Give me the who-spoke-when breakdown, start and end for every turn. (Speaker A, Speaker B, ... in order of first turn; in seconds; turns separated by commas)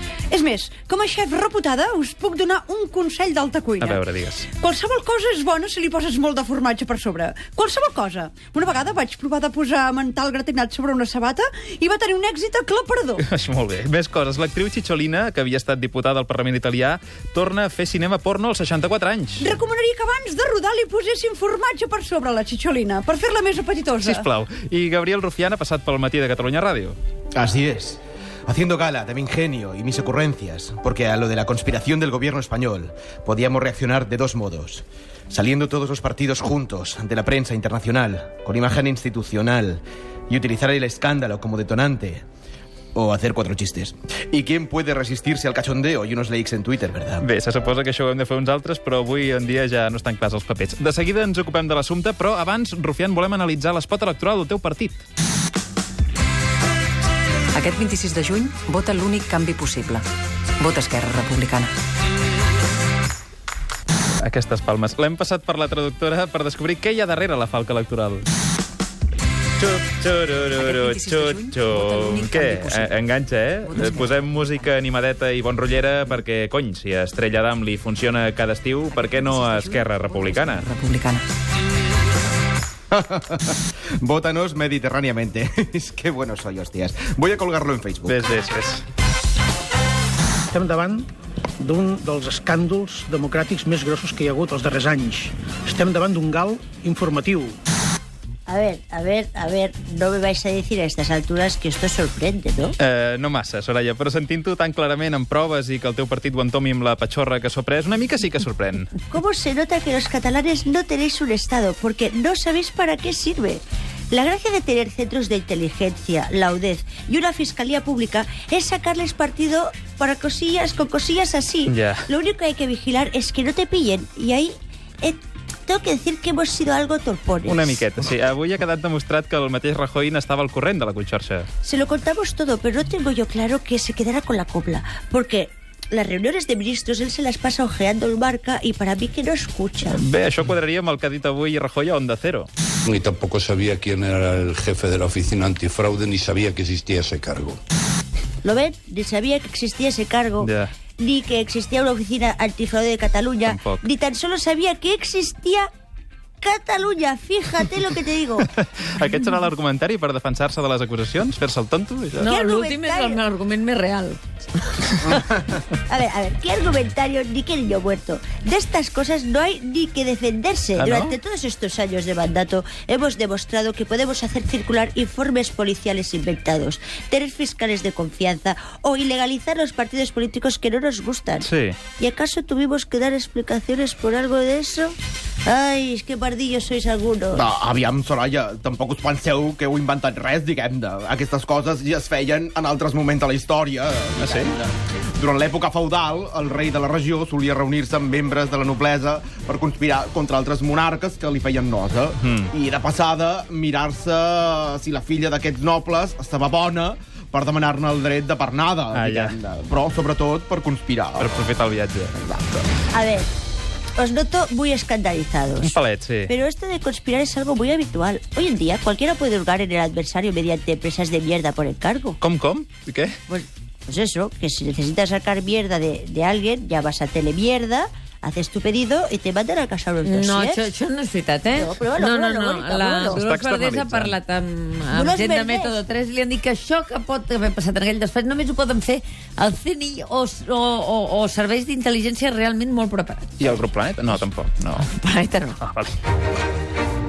Speaker A: 0.3-13.2, Speaker B: 3.8-4.5, Speaker B: 13.2-19.5, Speaker A: 19.4-24.2, Speaker B: 24.0-27.0, Speaker C: 27.4-42.2, Speaker C: 43.0-47.2, Speaker B: 47.2-55.0, Speaker D: 57.5-60.1, Speaker D: 60.6-61.7, Speaker B: 64.2-68.3, Speaker B: 69.6-80.7, Speaker D: 70.6-72.9, Speaker D: 73.7-74.2, Speaker D: 78.9-81.2, Speaker C: 82.9-88.2, Speaker B: 88.1-88.8, Speaker E: 90.5-91.1, Speaker E: 91.6-97.5, Speaker F: 98.5-102.8, Speaker B: 102.8-108.9, Speaker F: 109.1-127.8, Speaker B: 121.7-122.1, Speaker B: 127.5-131.5, Speaker F: 131.6-140.0, Speaker B: 139.9-142.5, Speaker G: 142.9-147.6, Speaker F: 148.4-155.7, Speaker B: 150.4-150.7, Speaker B: 153.5-153.8, Speaker F: 156.4-158.5, Speaker B: 158.4-162.3, Speaker H: 162.2-164.2, Speaker F: 162.2-163.2, Speaker H: 164.9-165.2, Speaker F: 165.9-187.5, Speaker B: 170.8-171.2, Speaker B: 181.4-181.8, Speaker C: 187.3-211.4, Speaker B: 194.2-194.5, Speaker B: 202.2-202.5, Speaker B: 208.9-209.4, Speaker B: 211.2-212.6, Speaker F: 212.9-213.3, Speaker F: 214.0-222.2, Speaker B: 215.6-216.3, Speaker B: 222.2-223.2, Speaker F: 223.3-230.7, Speaker H: 230.0-243.3, Speaker F: 231.5-233.2, Speaker B: 233.1-234.2, Speaker F: 234.9-235.8, Speaker B: 243.4-244.9, Speaker H: 244.8-245.6, Speaker B: 245.6-245.9